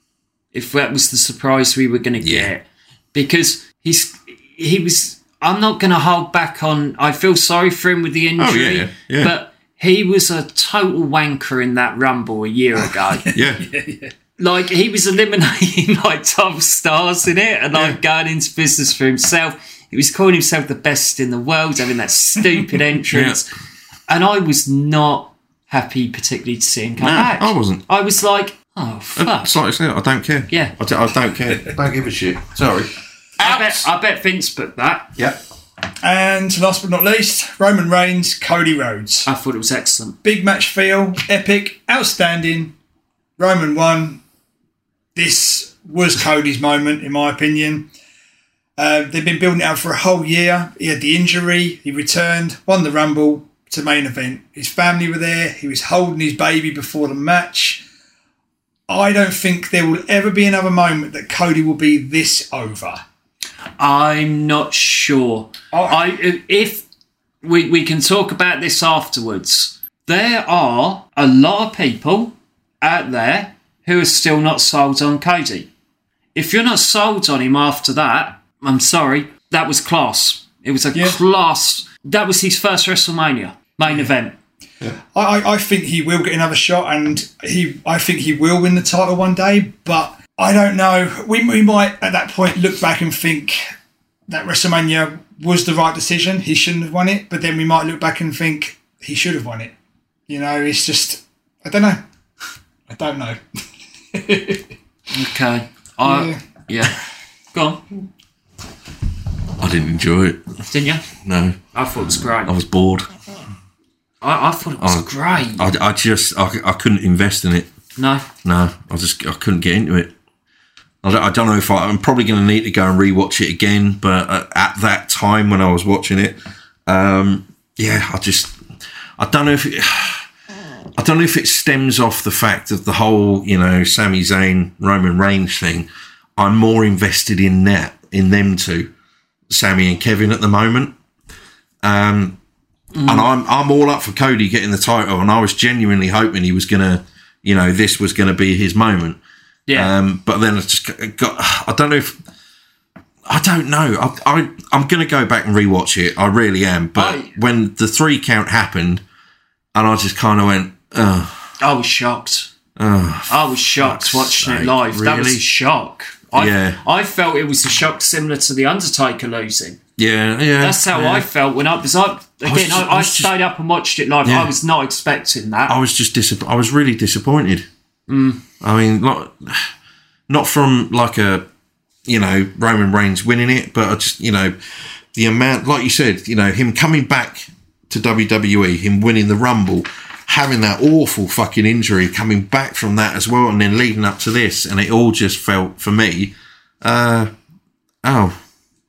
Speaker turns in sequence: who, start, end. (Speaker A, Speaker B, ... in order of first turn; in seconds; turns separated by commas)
Speaker A: 0.5-13.3, Speaker B: 2.2-2.5, Speaker B: 8.4-9.3, Speaker C: 12.8-14.1, Speaker B: 13.3-13.7, Speaker A: 14.4-23.5, Speaker B: 23.1-23.4, Speaker A: 24.1-29.6, Speaker B: 27.0-27.8, Speaker B: 29.1-33.9, Speaker A: 30.5-30.7, Speaker A: 33.4-35.1, Speaker C: 36.0-39.3, Speaker A: 39.2-40.2, Speaker C: 40.2-42.7, Speaker C: 43.4-44.2, Speaker C: 45.1-47.9, Speaker C: 48.8-57.8, Speaker C: 58.9-63.0, Speaker A: 63.8-66.8, Speaker C: 65.7-66.0, Speaker A: 67.4-75.7, Speaker A: 76.3-84.3, Speaker C: 83.8-84.1, Speaker C: 85.1-93.6, Speaker C: 94.3-99.7, Speaker C: 100.3-102.0, Speaker C: 102.9-103.4, Speaker C: 104.1-104.7, Speaker A: 105.1-107.0, Speaker C: 106.0-106.4, Speaker A: 107.5-107.8, Speaker B: 109.6-110.4, Speaker A: 110.7-111.0, Speaker B: 111.1-111.6, Speaker A: 111.7-112.5, Speaker B: 112.1-113.1, Speaker A: 114.2-115.7, Speaker B: 114.8-117.7, Speaker A: 118.0-118.3, Speaker B: 118.4-120.1, Speaker B: 121.0-128.6, Speaker B: 129.2-130.2, Speaker B: 131.0-138.9, Speaker B: 139.5-140.9, Speaker B: 141.8-142.4, Speaker A: 142.9-143.3, Speaker B: 143.1-149.2, Speaker A: 149.7-149.9, Speaker B: 149.7-152.1, Speaker B: 153.3-159.0, Speaker A: 156.9-157.3, Speaker B: 159.7-161.4, Speaker A: 161.6-162.5, Speaker B: 162.8-165.4, Speaker A: 163.3-169.8, Speaker B: 166.3-166.8, Speaker B: 170.0-171.3, Speaker A: 170.6-175.8, Speaker B: 172.4-173.3, Speaker B: 174.2-174.5, Speaker B: 175.7-177.7, Speaker A: 178.1-178.4, Speaker B: 178.6-179.7, Speaker B: 180.3-181.4, Speaker B: 182.1-184.5, Speaker B: 185.1-197.3, Speaker B: 198.0-198.3